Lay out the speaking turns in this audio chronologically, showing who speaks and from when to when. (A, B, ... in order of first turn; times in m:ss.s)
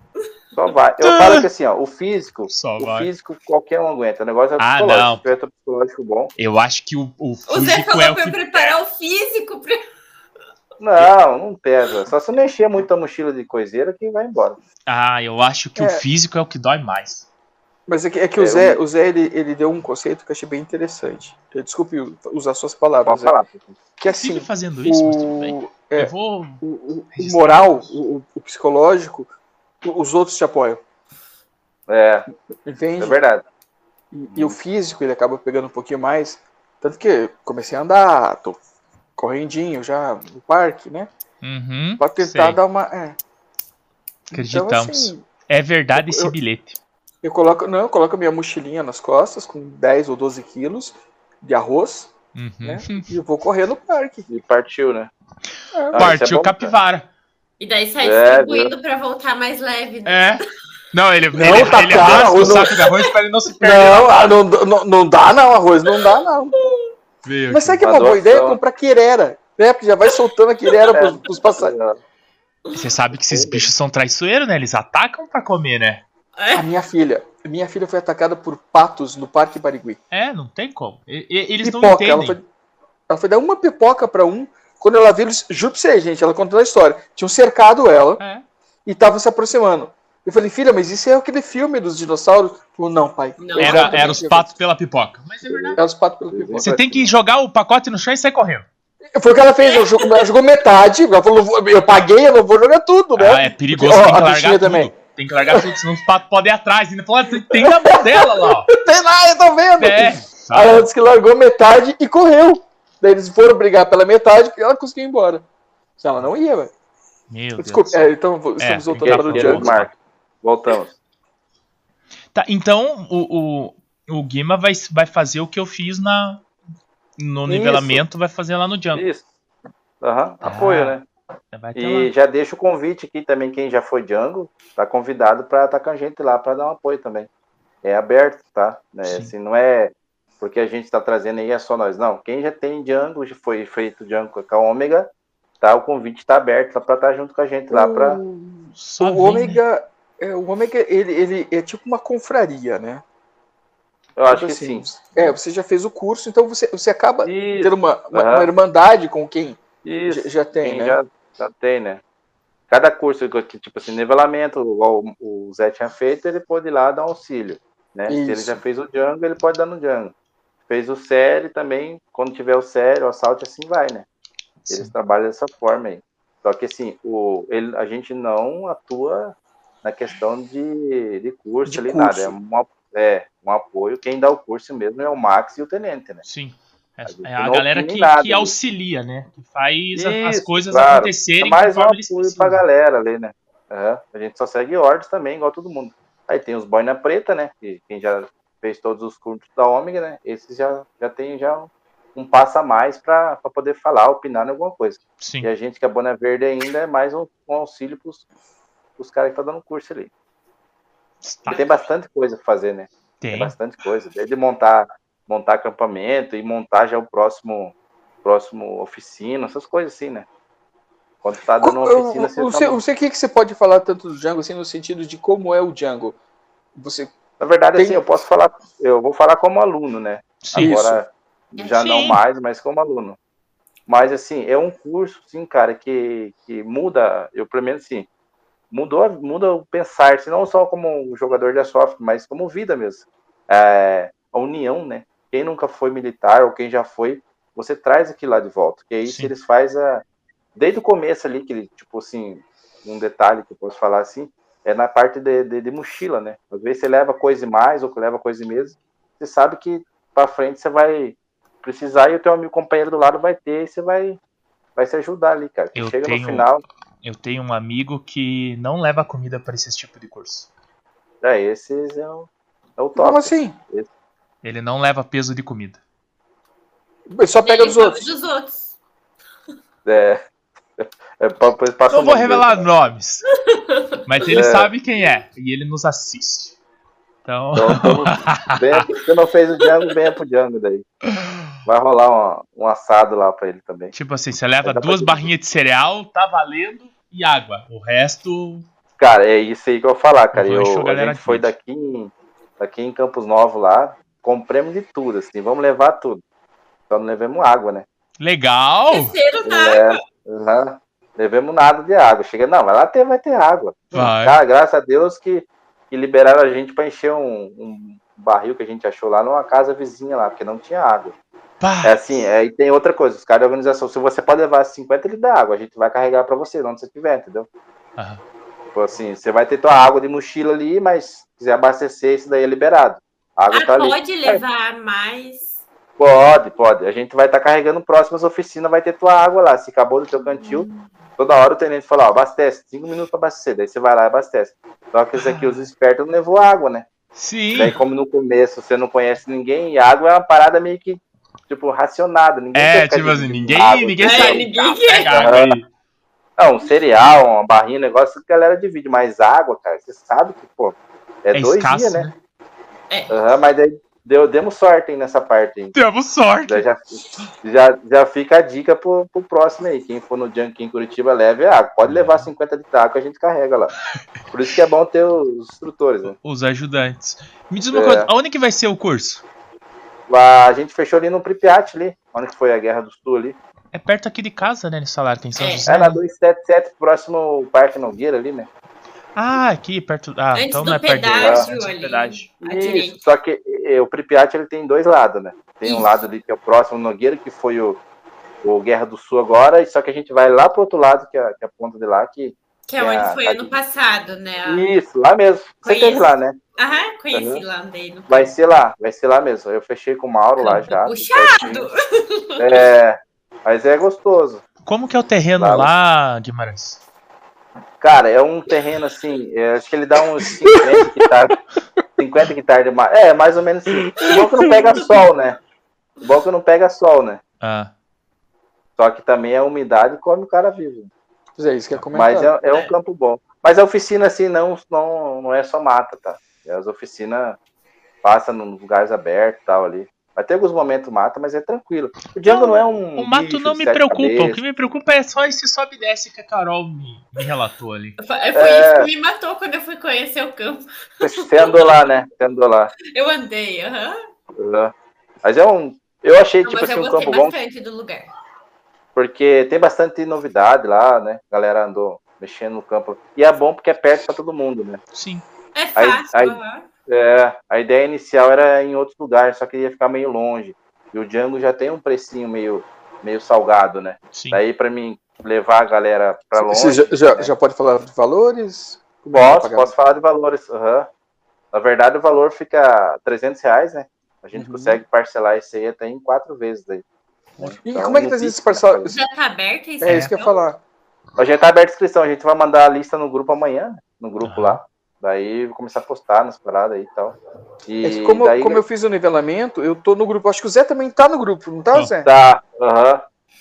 0:00.6-0:06.3 A
0:01.0-0:01.5 B
0:02.5-0:03.1 B
0:04.6-0:05.3 B
0:06.4-0:08.8 B
0:07.5-0:09.8 C
0:10.8-0:14.6 A
0:14.9-0:17.3 B
0:15.8-0:16.0 D
0:17.9-0:23.4 D
0:18.4-0:18.8 A
0:23.1-0:23.8 A
0:24.0-0:29.3 D
0:24.1-0:26.6 B
0:27.1-0:28.0 B
0:29.8-0:30.8 D
0:31.9-0:32.3 A
0:32.6-0:33.2 D
0:33.0-0:33.4 A
0:34.1-0:38.6 D
0:39.2-0:41.1 D
0:41.4-0:42.6 B
0:42.0-0:43.2 D
0:44.3-0:45.3 D
0:44.3-0:46.8 B
0:46.0-0:46.4 D
0:47.2-0:52.1 D
0:52.3-0:53.1 B
0:52.6-0:54.3 D
0:54.3-0:55.1 A
0:55.7-0:56.1 D
0:55.9-0:56.8 A
0:55.9-0:57.1 B
0:57.6-1:00.3 C
0:58.0-0:58.7 A
1:00.0-1:04.4 B
1:01.3-1:02.8 D
1:03.6-1:06.6 D
1:07.2-1:07.8 B
1:07.5-1:11.7 D
1:07.8-1:08.6 A
1:10.9-1:12.0 A
1:12.7-1:16.0 B
1:13.3-1:13.7 A
1:16.4-1:16.7 C
1:16.5-1:20.0 D
1:20.1-1:22.4 B
1:21.6-1:22.5 D
1:23.1-1:28.2 D
1:28.2-1:28.4 B
1:28.8-1:34.5 D
1:33.4-1:34.1 C
1:33.6-1:35.8 B
1:35.7-1:36.8 D
1:36.3-1:37.1 A
1:36.6-1:38.7 B
1:39.1-1:44.9 D
1:43.2-1:48.7 B
1:47.5-1:55.4 D
1:49.8-1:50.9 B
1:56.0-1:56.7 D
1:57.3-1:59.9 B
1:57.6-1:59.7 D
1:59.0-2:01.0 A
2:02.3-2:06.4 B
2:07.2-2:09.1 B
2:07.5-2:08.0 A
2:08.9-2:09.2 A
2:10.0-2:11.0 A
2:10.4-2:11.0 B
2:11.5-2:12.1 B
2:11.8-2:17.3 A
2:17.8-2:28.2 A
2:19.0-2:19.3 B
2:27.7-2:33.0 D
2:28.8-2:29.6 B
2:34.2-2:34.9 A
2:34.3-2:41.0 D
2:37.2-2:38.5 A
2:39.8-2:42.0 A
2:42.7-2:50.1 A
2:48.1-2:48.6 D
2:50.7-2:54.1 A
2:54.7-2:54.9 B
2:54.7-3:06.2 A
3:01.6-3:02.4 D
3:06.2-3:12.6 B
3:07.1-3:08.5 A
3:10.0-3:28.2 A
3:25.2-3:25.5 B
3:29.0-3:30.1 A
3:31.2-3:31.7 B
3:31.5-3:40.3 A
3:33.2-3:33.5 B
3:41.2-3:42.8 A
3:41.6-3:46.2 D
3:46.8-3:47.1 D
3:47.4-3:53.2 A
3:47.8-3:48.0 D
3:50.4-3:50.8 B
3:50.5-3:51.0 D
3:51.7-3:52.2 B
3:53.9-3:58.1 A
3:58.7-4:10.0 A
4:09.1-4:09.3 B
4:10.6-4:24.2 A
4:24.8-4:26.6 A
4:25.8-4:26.5 B
4:27.0-4:30.5 B
4:31.2-4:33.9 A
4:33.0-4:33.6 D
4:34.4-4:35.8 B
4:37.1-4:38.0 D
4:37.4-4:38.7 C
4:39.8-4:40.2 A
4:40.8-4:42.7 A
4:41.9-4:43.3 B
4:43.5-4:44.0 C
4:44.0-4:46.6 B
4:44.3-4:44.7 A
4:47.2-4:48.9 B
4:47.6-4:50.9 A
4:49.6-4:49.9 C
4:51.1-4:51.4 B
4:51.6-4:53.9 A
4:53.9-4:58.6 B
4:54.6-4:55.3 A
4:59.0-5:06.2 A
5:00.3-5:01.5 B
5:06.9-5:07.8 A
5:08.2-5:09.2 B
5:08.9-5:10.0 C
5:09.4-5:21.1 A
5:13.9-5:14.4 B
5:21.6-5:22.0 B
5:21.8-5:27.5 A
5:28.0-5:28.2 B
5:28.7-5:34.4 A
5:33.5-5:35.5 C
5:36.0-5:40.7 A
5:41.2-5:46.9 A
5:45.2-5:45.7 B
5:47.2-5:47.8 B
5:47.5-5:54.4 A
5:52.5-5:55.7 B
5:54.0-5:55.2 C
5:55.1-5:55.6 A
5:56.4-6:02.1 A
6:01.3-6:02.1 B
6:02.9-6:03.2 C
6:03.1-6:05.8 A
6:05.7-6:06.6 B
6:06.5-6:13.8 A
6:11.9-6:12.3 B
6:14.3-6:16.2 A
6:16.1-6:19.2 B
6:17.7-6:18.1 A
6:20.1-6:23.4 A
6:23.7-6:26.0 B
6:25.4-6:25.7 C
6:25.7-6:28.5 A
6:29.2-6:32.3 B
6:30.4-6:33.0 C
6:31.2-6:31.5 A
6:32.4-6:37.8 A
6:35.6-6:36.0 C
6:38.4-6:43.6 A
6:42.7-6:44.7 C
6:44.5-6:46.4 A
6:45.6-6:48.3 C
6:47.1-6:47.4 A
6:48.1-6:51.7 A
6:50.4-6:52.7 C
6:52.4-6:54.4 A
6:54.6-6:56.8 B
6:55.4-6:55.7 A
6:57.8-7:01.4 A
7:00.2-7:01.0 D
7:02.0-7:05.4 A
7:04.0-7:05.0 D
7:06.0-7:07.2 A
7:07.4-7:07.7 B
7:08.8-7:10.9 A
7:11.4-7:12.3 D
7:11.9-7:17.4 A
7:18.0-7:24.4 A
7:22.3-7:28.0 B
7:28.0-7:31.8 C
7:28.3-7:28.9 A
7:31.0-7:32.7 A
7:32.9-7:34.0 C
7:34.4-7:37.4 A
7:36.4-7:38.1 C
7:39.0-7:44.8 A
7:44.9-7:45.2 B
7:45.6-7:46.6 C
7:45.8-7:57.3 A
7:54.1-7:54.4 B
7:56.4-7:59.7 D
7:59.1-8:00.9 A
8:01.5-8:06.8 A
8:04.3-8:04.8 D
8:07.4-8:08.9 A
8:07.6-8:09.0 D
8:08.9-8:10.4 C
8:09.8-8:10.6 D
8:09.8-8:10.1 B
8:11.2-8:18.6 A
8:14.2-8:14.6 B
8:17.8-8:22.1 D
8:22.0-8:23.0 A